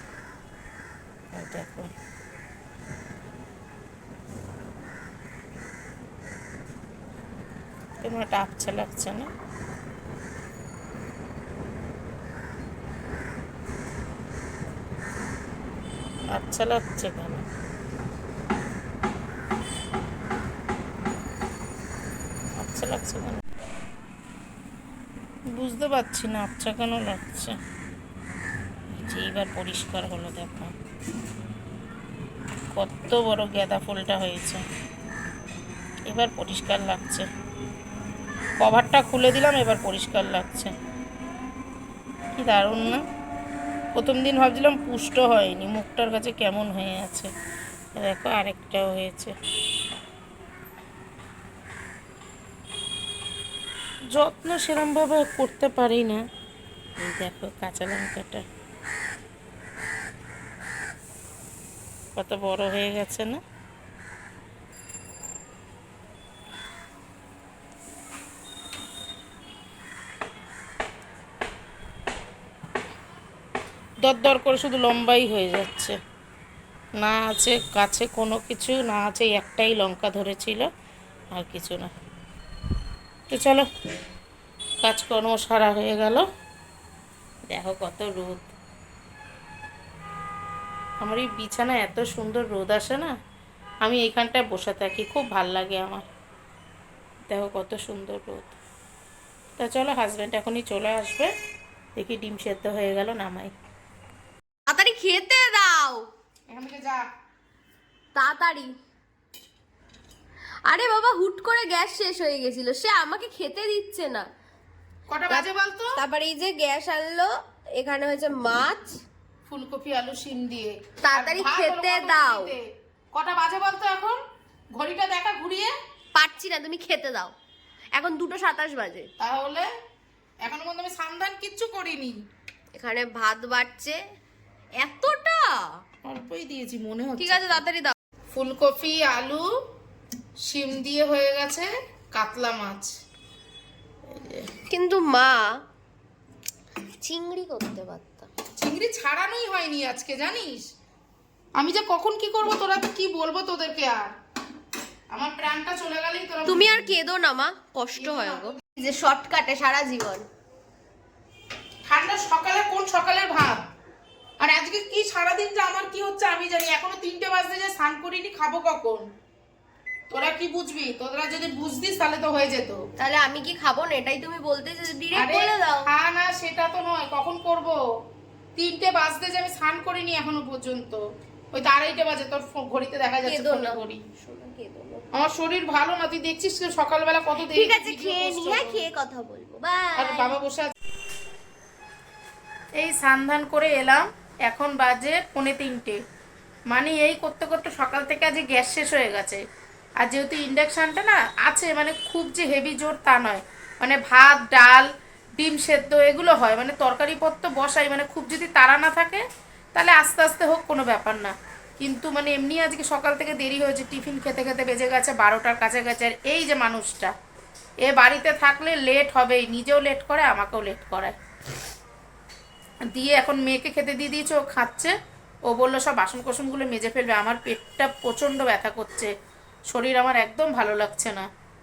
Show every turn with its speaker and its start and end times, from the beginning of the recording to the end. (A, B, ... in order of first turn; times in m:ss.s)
0:01.3-0:01.9 A
0:08.0-0:09.3 A
0:16.3-0:17.4 A
0:22.6-0:23.4 A
0:25.5-0:27.6 A
0:28.9-0:30.7 A
0:32.7-0:34.6 A
0:36.1-0:37.3 A
0:38.6-0:40.7 A
0:42.4-0:43.0 A
0:43.9-0:47.3 A
0:48.0-0:49.3 A
0:54.1-0:56.2 A
0:57.0-0:58.4 A
1:02.2-1:03.4 A
1:14.0-1:16.0 A
1:17.0-1:20.7 A
1:21.3-1:21.9 A
1:23.3-1:23.7 A
1:24.8-1:26.2 A
1:27.5-1:28.5 A
1:31.0-1:33.1 A
1:33.8-1:36.0 A
1:37.3-1:38.6 A
1:39.6-1:41.3 A
1:41.9-1:43.5 A
1:44.7-1:46.1 B
1:46.5-1:47.0 A
1:48.1-1:48.7 B
1:50.7-1:54.3 B
1:55.1-1:56.0 A
1:56.0-1:59.0 B
1:59.5-2:02.6 A
2:01.0-2:02.5 B
2:03.1-2:04.2 A
2:04.8-2:05.7 A
2:06.1-2:07.3 B
2:08.0-2:09.1 B
2:09.2-2:09.7 A
2:10.4-2:12.2 A
2:12.8-2:14.0 B
2:14.8-2:15.8 B
2:16.0-2:17.6 A
2:17.2-2:17.9 B
2:18.3-2:19.4 A
2:20.5-2:22.9 A
2:24.1-2:24.5 A
2:24.7-2:25.6 B
2:27.0-2:28.3 B
2:28.6-2:30.7 A
2:31.6-2:34.1 A
2:35.1-2:36.7 A
2:36.4-2:40.2 B
2:38.0-2:38.5 A
2:41.9-2:43.6 A
2:44.4-2:49.1 A
2:50.1-2:52.8 A
2:53.0-2:55.9 B
2:55.1-2:57.8 A
2:58.6-3:01.0 A
3:01.5-3:04.0 A
3:03.2-3:05.1 B
3:05.1-3:08.8 A
3:07.4-3:10.4 B
3:10.0-3:10.7 A
3:12.8-3:16.0 A
3:16.7-3:19.4 A
3:20.0-3:24.9 A
3:25.4-3:29.2 A
3:29.7-3:37.1 A
3:37.8-3:41.1 A
3:42.9-3:44.9 A
3:45.5-3:49.1 A
3:49.7-3:51.3 A